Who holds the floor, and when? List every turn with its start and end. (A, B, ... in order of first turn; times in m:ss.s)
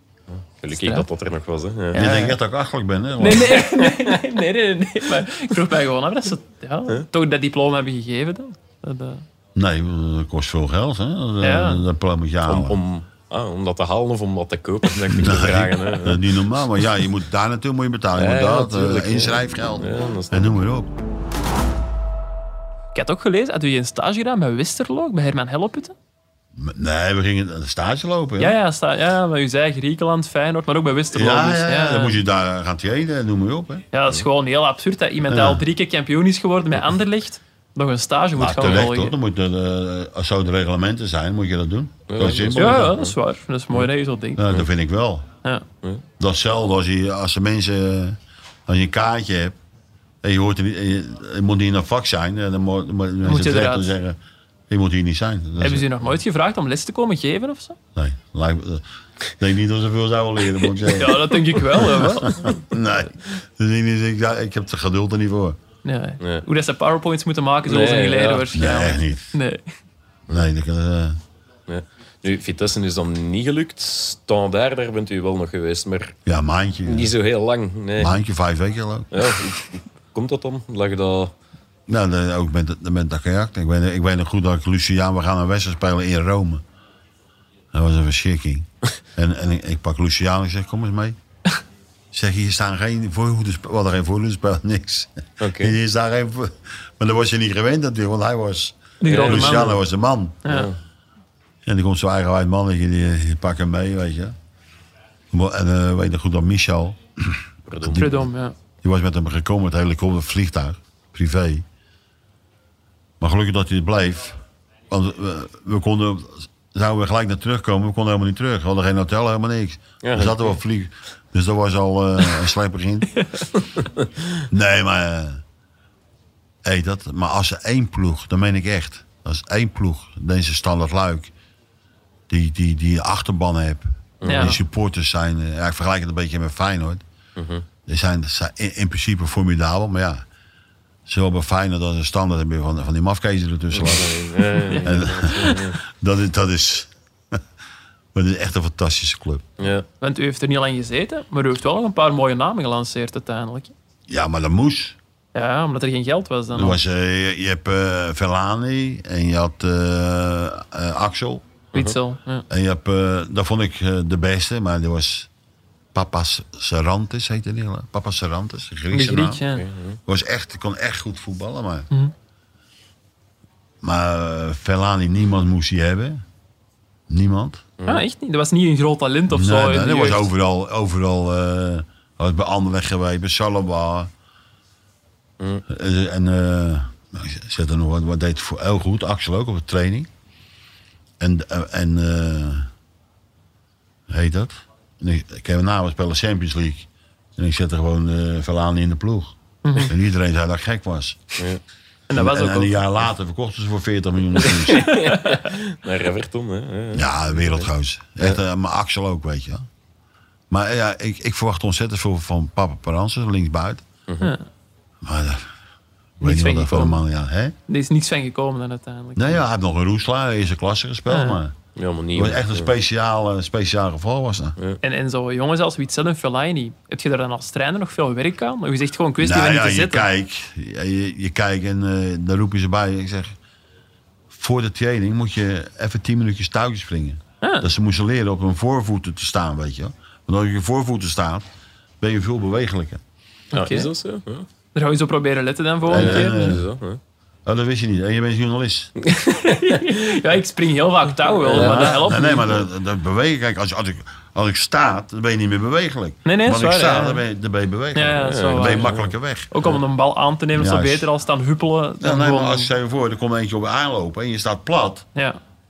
0:00.3-0:02.1 A
0:00.8-0:01.0 B
0:01.9-0:02.4 B
0:01.9-0:03.6 C
0:03.2-0:09.2 B
0:03.6-0:04.2 A
0:09.5-0:12.8 C
0:11.4-0:11.8 B
0:12.5-0:16.2 A
0:15.1-0:20.9 C
0:18.1-0:20.6 A
0:22.9-0:25.9 B
0:26.5-0:28.6 C
0:28.4-0:32.2 B
0:31.1-0:33.8 C
0:33.9-0:39.1 B
0:35.3-0:35.6 C
0:38.4-0:43.0 C
0:42.1-0:43.1 A
0:42.6-0:44.5 B
0:44.4-0:45.3 C
0:46.2-0:49.6 C
0:50.2-0:54.2 C
0:53.2-0:53.9 B
0:54.7-0:55.9 C
0:55.6-0:57.8 B
0:57.9-0:58.8 C
0:59.4-1:05.6 C
1:00.9-1:02.6 B
1:05.8-1:09.6 B
1:07.7-1:08.5 A
1:08.5-1:09.4 C
1:10.3-1:11.2 C
1:11.7-1:16.1 A
1:16.2-1:17.1 C
1:16.8-1:18.2 A
1:18.0-1:19.3 C
1:19.1-1:21.3 A
1:21.9-1:26.6 C
1:27.7-1:31.2 C
1:32.1-1:40.4 C
1:35.4-1:35.7 A
1:39.0-1:39.8 B
1:39.0-1:39.7 A
1:40.4-1:40.7 B
1:40.5-1:40.8 A
1:41.6-1:44.3 C
1:45.3-1:48.3 C
1:47.7-1:48.2 A
1:47.9-1:48.5 B
1:48.8-1:51.6 C
1:53.2-1:54.4 C
1:54.9-2:03.2 C
2:00.0-2:00.5 A
2:03.8-2:04.4 A
2:04.5-2:05.4 C
2:06.6-2:11.3 C
2:12.3-2:17.0 C
2:14.2-2:14.6 A
2:14.2-2:14.6 B
2:17.4-2:17.6 A
2:17.8-2:20.2 C
2:21.0-2:27.4 C
2:23.7-2:25.8 A
2:24.6-2:25.6 B
2:28.1-2:29.4 C
2:29.6-2:29.8 A
2:30.0-2:33.7 B
2:34.1-2:35.0 C
2:35.3-2:36.8 B
2:36.5-2:41.4 C
2:41.7-2:42.4 B
2:42.5-2:45.3 C
2:45.9-2:49.4 C
2:48.9-2:49.6 B
2:49.5-2:50.0 A
2:50.1-2:51.9 C
2:53.8-2:56.2 C
2:57.1-2:57.6 C
2:57.8-2:58.0 A
2:57.9-3:00.3 B
2:59.3-3:04.1 C
3:05.7-3:10.1 C
3:11.2-3:12.7 C
3:14.1-3:21.4 C
3:19.6-3:19.9 B
3:22.1-3:22.7 B
3:22.1-3:24.9 C
3:24.4-3:27.7 A
3:24.9-3:25.4 B
3:26.9-3:29.6 C
3:30.5-3:33.8 C
3:34.1-3:34.3 A
3:35.0-3:35.5 C
3:36.2-3:37.6 C
3:36.2-3:37.0 B
3:37.7-3:39.4 B
3:39.2-3:41.6 C
3:41.1-3:41.4 B
3:41.8-3:42.7 A
3:42.1-3:44.6 C
3:44.8-3:50.1 B
3:49.2-3:53.4 C
3:54.3-4:01.5 C
3:57.4-3:57.7 B
4:02.0-4:03.0 C
4:03.5-4:03.9 B
4:03.5-4:04.5 A
4:04.7-4:06.6 B
4:05.9-4:06.6 C
4:05.9-4:07.0 A
4:07.4-4:08.9 C
4:09.0-4:10.0 A
4:09.2-4:12.6 B
4:11.4-4:12.0 A
4:11.5-4:19.5 C
4:16.2-4:17.2 B
4:17.9-4:18.9 B
4:18.2-4:19.8 A
4:19.5-4:22.7 B
4:20.5-4:21.1 C
4:22.0-4:25.1 C